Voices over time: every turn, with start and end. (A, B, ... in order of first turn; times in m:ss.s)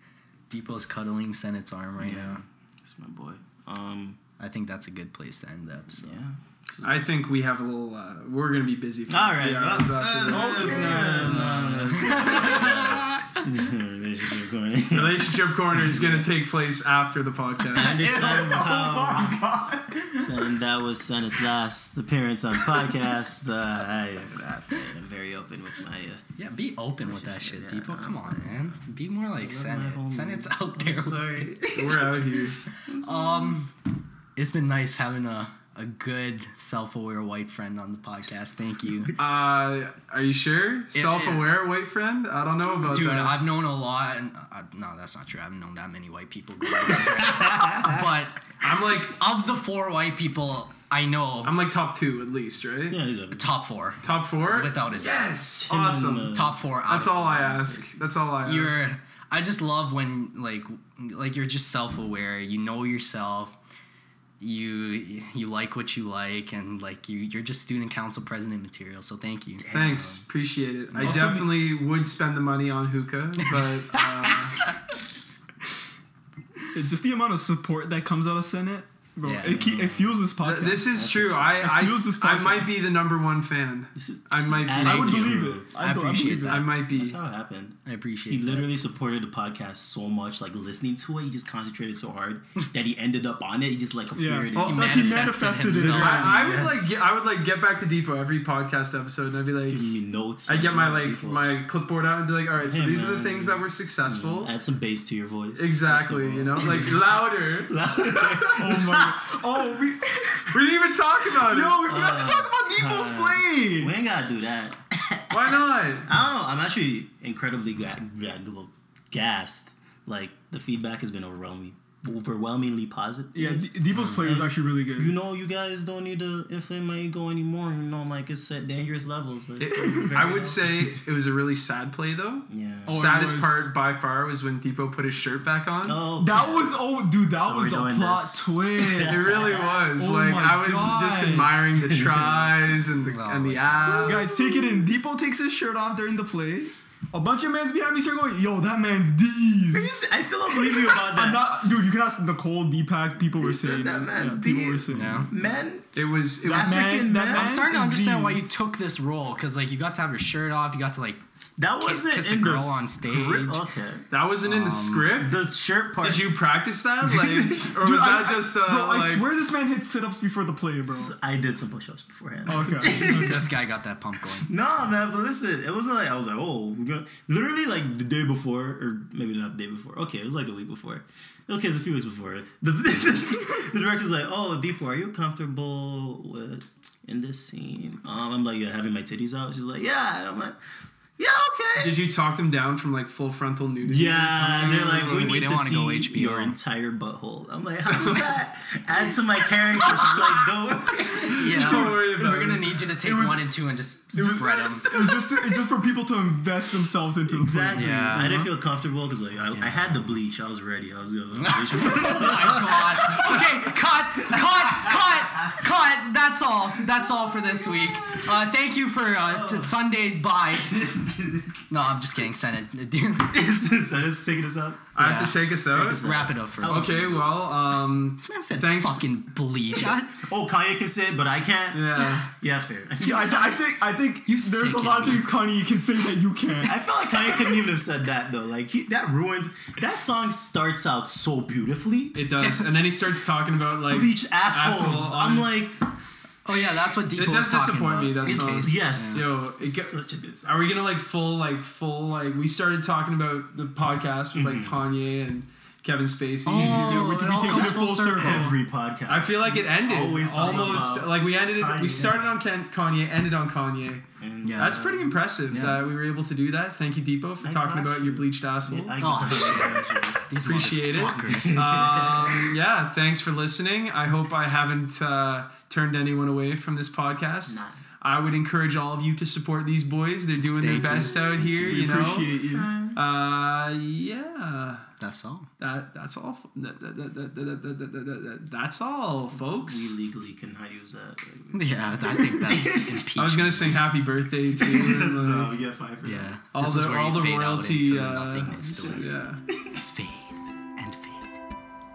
0:00.5-0:02.4 A
0:02.0-0:04.2 B
0:04.4-0:06.2 A
0:05.9-0:07.0 B
0:06.8-0:11.2 C
0:09.1-0:16.3 B
0:10.3-0:11.5 D
0:10.6-0:13.5 A
0:14.9-0:18.2 C
0:17.7-0:19.4 B
0:17.8-0:20.4 D
0:20.2-0:26.2 B
0:26.4-0:31.2 A
0:27.0-0:33.6 B
0:31.8-0:32.6 C
0:33.0-0:33.7 A
0:34.4-0:39.1 A
0:39.2-0:43.4 C
0:40.9-0:41.4 A
0:42.9-0:48.6 A
0:46.8-0:48.1 B
0:48.6-0:49.2 C
0:49.1-0:51.5 A
0:51.4-0:53.0 C
0:52.9-0:53.4 B
0:53.3-0:55.3 A
0:54.0-0:56.4 C
0:55.7-0:56.7 B
0:56.3-0:57.8 A
0:56.9-0:58.8 C
0:57.3-0:57.8 B
0:58.4-1:03.6 A
1:04.4-1:09.7 A
1:09.6-1:10.2 B
1:09.7-1:14.6 C
1:10.9-1:11.4 A
1:11.0-1:11.5 D
1:13.9-1:14.8 A
1:16.7-1:21.0 D
1:19.2-1:19.6 A
1:19.4-1:20.3 B
1:20.4-1:25.4 C
1:20.9-1:22.0 B
1:21.6-1:22.8 D
1:24.0-1:25.7 B
1:24.7-1:26.7 D
1:25.8-1:26.7 A
1:26.4-1:27.2 C
1:26.9-1:37.0 B
1:27.8-1:28.7 A
1:34.1-1:36.5 D
1:34.6-1:36.3 A
1:35.8-1:39.9 C
1:39.7-1:41.5 B
1:40.5-1:44.5 C
1:42.6-1:49.3 B
1:45.6-1:47.7 C
1:48.6-1:50.6 D
1:50.5-1:51.8 C
1:51.4-1:53.9 D
1:51.8-2:10.9 B
1:55.3-1:56.1 C
2:03.4-2:05.1 D
2:03.9-2:04.2 A
2:09.6-2:16.0 C
2:09.7-2:10.2 D
2:12.5-2:13.1 B
2:12.9-2:13.7 D
2:15.8-2:16.7 B
2:16.2-2:21.5 D
2:16.4-2:16.6 A
2:17.3-2:19.9 B
2:19.0-2:24.4 C
2:21.8-2:22.6 B
2:23.1-2:24.2 A
2:24.0-2:29.9 D
2:24.2-2:24.8 B
2:29.7-2:31.5 B
2:30.5-2:35.5 D
2:33.4-2:35.9 B
2:34.9-2:35.3 A
2:36.0-2:37.1 C
2:36.4-2:37.7 B
2:36.5-2:38.5 D
2:37.2-2:41.2 A
2:41.6-2:44.1 B
2:41.8-2:43.6 A
2:44.1-2:45.4 C
2:44.4-2:45.1 A
2:45.2-2:46.3 B
2:46.0-2:49.3 C
2:47.8-2:51.1 D
2:50.9-2:53.5 B
2:52.5-2:53.4 D
2:53.0-2:54.5 A
2:54.3-3:10.6 B
3:11.2-3:12.0 B
3:11.8-3:15.4 C
3:13.8-3:21.8 B
3:14.4-3:16.6 A
3:17.9-3:18.3 C
3:19.9-3:20.2 A
3:21.1-3:23.6 D
3:21.2-3:22.8 C
3:21.3-3:24.9 A
3:24.1-3:28.5 D
3:24.2-3:25.6 B
3:27.3-3:33.6 B
3:27.8-3:28.4 A
3:29.5-3:30.2 A
3:31.3-3:40.9 A
3:34.2-3:35.6 B
3:36.8-3:38.5 B
3:39.2-3:39.8 B
3:40.6-3:41.6 B
3:41.7-3:43.5 A
3:43.3-3:44.9 B
3:45.0-3:46.0 C
3:45.0-3:45.4 A
3:45.7-3:47.5 B
3:46.0-3:46.9 A
3:46.6-3:49.2 C
3:48.2-3:50.1 A
3:49.8-3:53.6 B
3:51.7-3:52.3 C
3:53.0-3:56.8 D
3:54.3-3:55.3 A
3:56.6-4:02.2 B
4:02.1-4:05.5 C
4:02.4-4:02.7 A
4:03.9-4:05.8 B
4:06.4-4:09.3 A
4:07.2-4:17.3 C
4:08.2-4:10.6 B
4:14.3-4:14.8 B
4:16.5-4:18.5 A
4:16.6-4:22.3 B
4:16.9-4:18.6 D
4:19.1-4:24.0 C
4:20.4-4:20.9 A
4:22.0-4:22.2 A
4:24.2-4:25.2 B
4:24.4-4:24.8 A
4:24.6-4:29.7 C
4:25.5-4:25.8 A
4:27.4-4:32.6 B
4:29.0-4:31.7 A
4:30.4-4:42.3 C
4:37.5-4:37.8 B
4:40.6-4:41.4 A
4:40.7-4:43.0 B
4:41.6-4:42.7 D
4:42.9-4:44.9 C
4:45.0-4:45.5 A
4:45.6-4:50.0 C
4:49.6-4:53.0 B
4:51.5-4:53.8 A
4:52.1-4:52.4 D
4:53.2-4:55.5 C
4:54.6-4:56.3 B
4:56.0-4:59.2 A
4:56.5-4:59.4 C
4:58.4-4:59.8 B
4:59.8-5:01.4 A